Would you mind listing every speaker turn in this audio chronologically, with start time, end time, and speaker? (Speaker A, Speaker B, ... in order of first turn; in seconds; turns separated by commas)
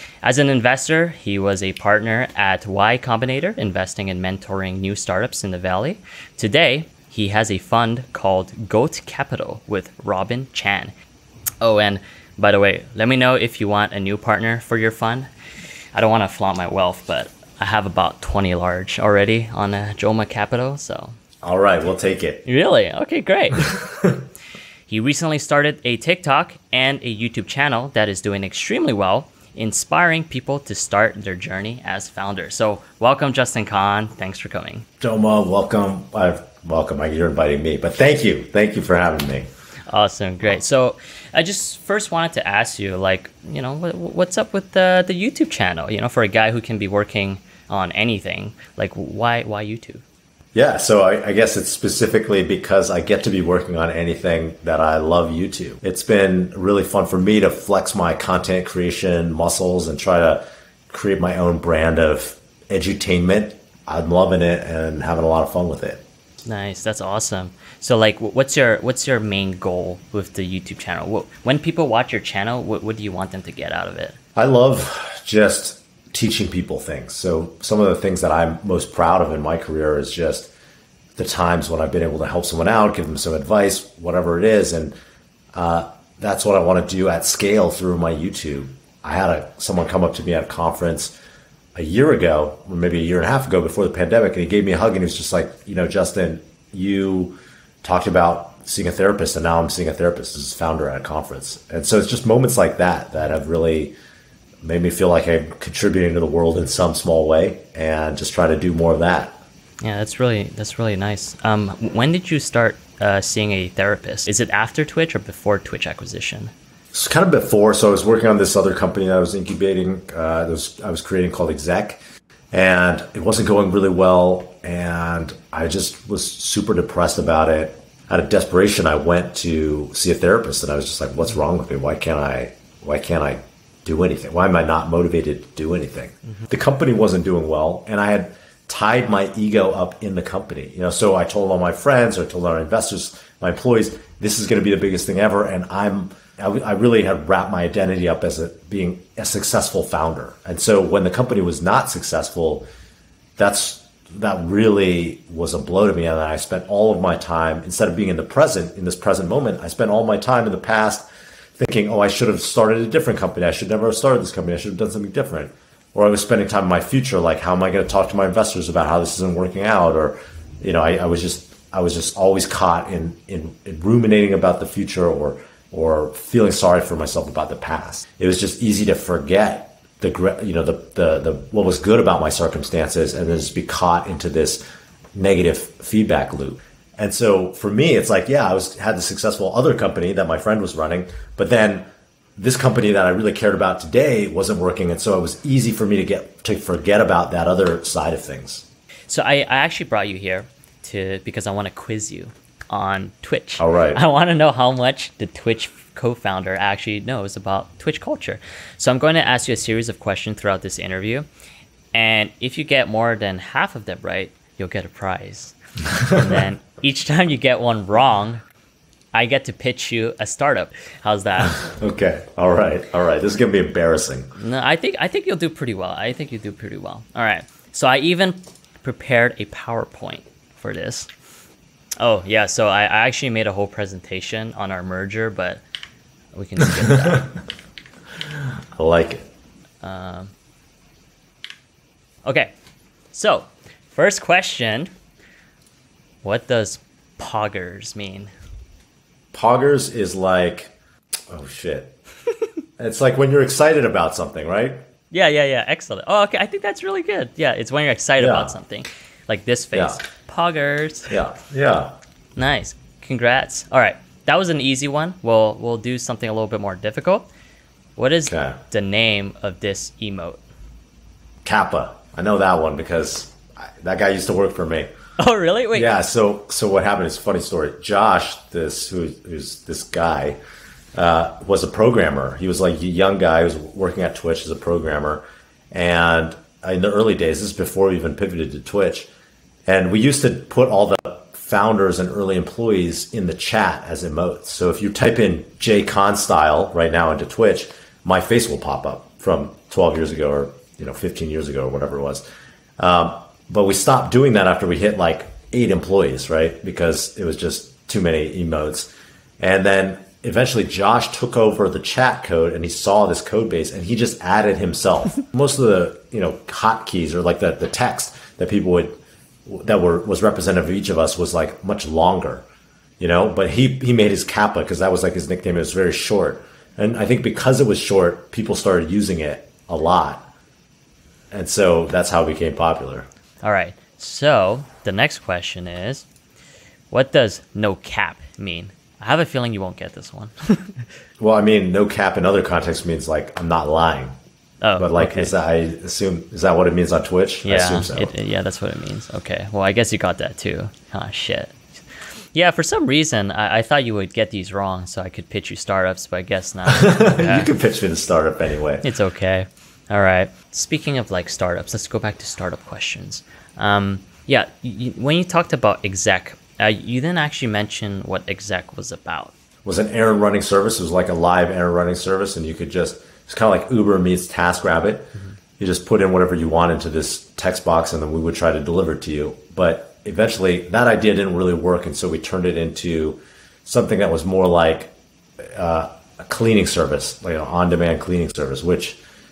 Speaker A: 0.2-10.9, Speaker A: 11.6-15.3, Speaker A: 15.9-21.1, Speaker B: 21.4-22.5, Speaker A: 22.4-23.8, Speaker B: 23.7-24.2, Speaker A: 24.9-34.9, Speaker B: 35.0-39.5, Speaker A: 39.9-50.0, Speaker B: 50.5-66.0, Speaker A: 66.4-74.2, Speaker B: 74.4-80.5, Speaker B: 81.2-84.9, Speaker B: 85.5-91.1, Speaker B: 91.8-103.9, Speaker B: 104.6-109.4, Speaker A: 109.8-116.5, Speaker B: 116.9-122.0, Speaker B: 122.5-152.7, Speaker B: 153.4-161.0, Speaker B: 161.6-184.6, Speaker B: 185.2-191.8, Speaker B: 192.4-198.7, Speaker A: 199.1-211.2, Speaker B: 203.6-204.0, Speaker A: 211.9-218.4, Speaker B: 216.0-216.3, Speaker A: 219.1-221.6, Speaker B: 221.4-224.3, Speaker A: 224.3-231.1, Speaker A: 232.0-235.6, Speaker A: 236.3-237.3, Speaker B: 238.8-239.3, Speaker A: 239.8-240.3, Speaker A: 242.2-242.5, Speaker A: 243.1-244.9, Speaker A: 246.2-248.3, Speaker B: 249.3-250.7, Speaker B: 251.3-251.9, Speaker B: 252.8-254.8, Speaker A: 255.1-261.1, Speaker B: 258.2-258.6, Speaker B: 259.7-260.0, Speaker B: 261.1-261.9, Speaker A: 262.4-267.3, Speaker A: 267.9-270.4, Speaker B: 268.3-268.6, Speaker B: 271.4-274.9, Speaker A: 275.2-275.9, Speaker B: 275.7-280.4, Speaker B: 280.9-289.1, Speaker B: 289.6-302.2, Speaker B: 302.8-322.4, Speaker B: 323.0-330.3, Speaker B: 331.3-333.1, Speaker A: 333.4-336.1, Speaker A: 336.9-340.8, Speaker B: 341.2-344.2, Speaker A: 344.6-345.3, Speaker B: 344.8-348.1, Speaker A: 347.4-351.6, Speaker A: 352.3-357.5, Speaker B: 356.7-358.9, Speaker A: 358.8-369.3, Speaker B: 369.6-389.0